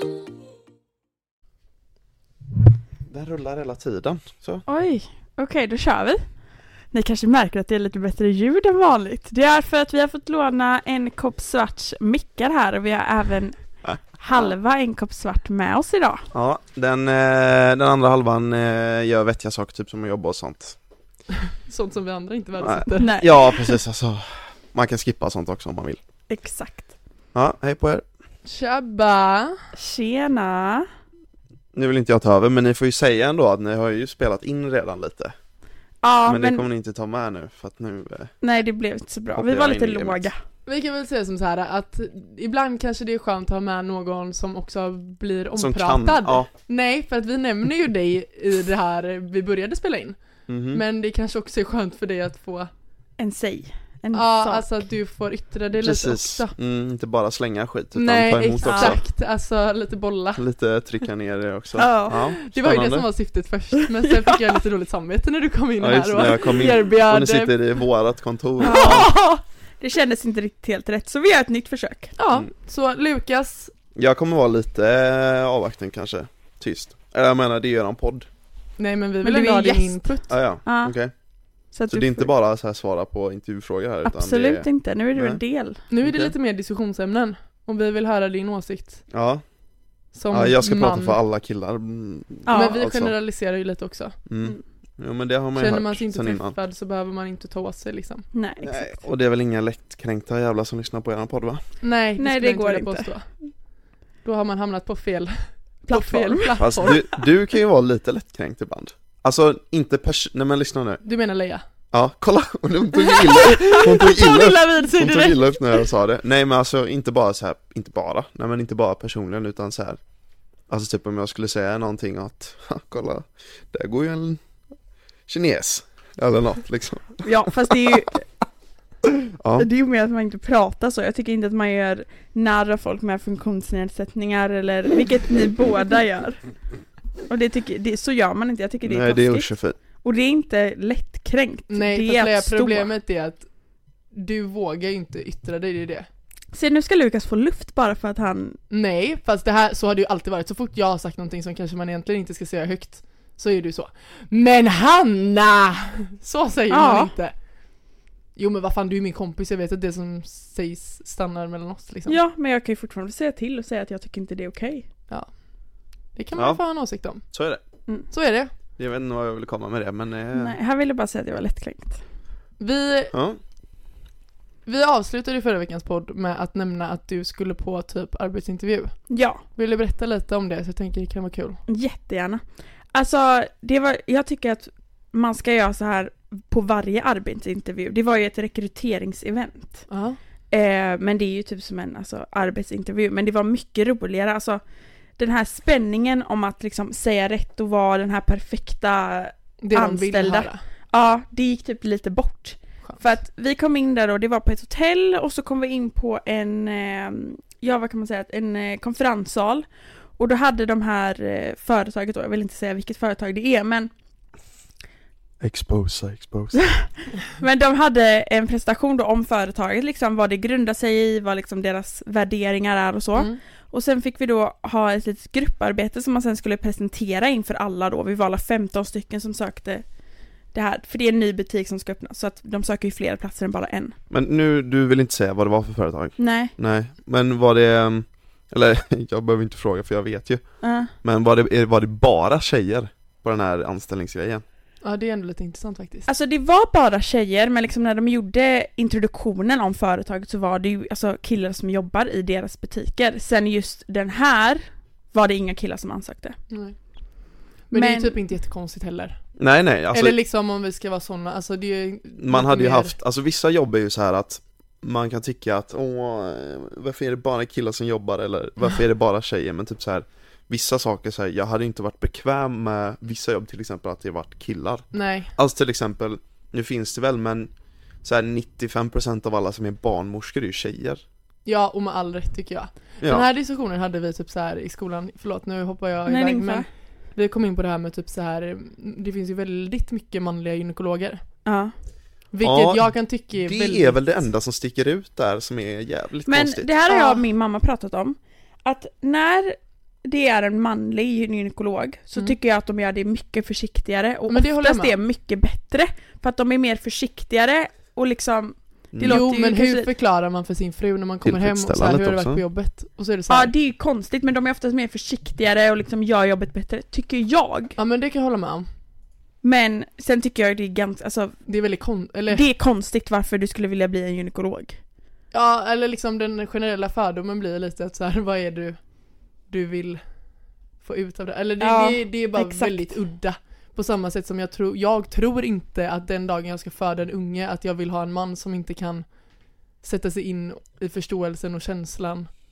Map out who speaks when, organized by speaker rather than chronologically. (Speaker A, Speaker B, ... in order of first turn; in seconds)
Speaker A: 3.1-4.6, 13.8-14.5, 16.3-20.8, 22.6-26.0, 27.3-28.0, 31.7-35.3, 36.2-38.3, 39.3-40.2, 45.6-46.5, 50.5-50.8, 55.8-59.0, 60.4-63.0, 65.8-69.1, 73.9-78.3, 80.3-81.1, 81.9-85.4, 86.0-86.3, 89.1-89.4, 90.3-93.1, 94.3-96.6, 98.6-101.6, 106.6-111.0, 111.9-120.0, 120.7-124.4, 125.3-128.0, 129.4-129.7, 138.8-139.8, 166.3-166.6, 167.3-167.6, 168.8-170.6, 173.1-173.4, 215.4-216.6, 234.1-240.4, 241.0-244.4, 259.4-260.1, 262.1-277.5, 278.0-281.0, 292.4-296.7, 308.9-309.2, 311.2-312.4
Speaker B: 4.7-6.2, 6.9-13.5, 14.2-16.2, 23.0-23.8, 26.3-26.9, 29.7-30.9, 36.0-36.6, 38.4-40.4, 53.2-54.7, 58.6-59.0, 61.7-62.2, 68.6-69.2, 69.8-72.1, 79.2-80.1, 80.7-80.9, 81.7-82.3, 84.0-85.8, 92.5-92.8, 98.3-98.9, 102.2-103.1, 105.9-107.0, 127.2-128.2, 129.6-136.5, 137.3-139.5, 140.0-142.9, 146.5-148.6, 156.7-157.1, 162.1-164.8, 170.3-172.0, 179.1-179.4, 181.7-182.4, 182.9-189.8, 190.5-194.6, 195.2-209.7, 210.2-213.9, 216.5-229.8, 230.5-233.9, 236.2-236.5, 240.6-240.9, 246.1-256.4, 257.7-258.2, 286.1-286.6, 291.4-291.7, 296.3-309.9, 313.3-317.8, 319.4-321.3, 322.3-324.8, 331.6-332.9
Speaker C: 21.6-23.2, 28.4-29.6, 40.6-50.2, 50.7-52.7, 54.1-56.5, 57.9-60.4, 62.4-67.5, 68.6-69.4, 72.2-73.7, 78.8-80.3, 85.9-89.0, 90.1-91.2, 92.5-94.2, 95.5-98.2, 101.8-103.3, 104.2-107.1, 111.0-111.6, 113.1-115.8, 141.7-143.5, 144.1-146.1, 148.7-157.3, 158.3-162.2, 166.2-167.2, 168.1-168.5, 172.6-173.1, 174.7-178.9, 179.5-181.6, 189.9-190.2, 199.6-200.6, 244.8-246.1, 256.5-256.8, 257.7-259.2, 259.9-262.9, 274.9-275.3, 281.4-291.2, 292.3-294.2, 296.9-297.2, 304.3-304.9, 309.1-313.5, 317.8-318.7, 321.4-322.4, 325.3-328.8, 329.5-330.0, 330.8-339.1, 339.8-342.3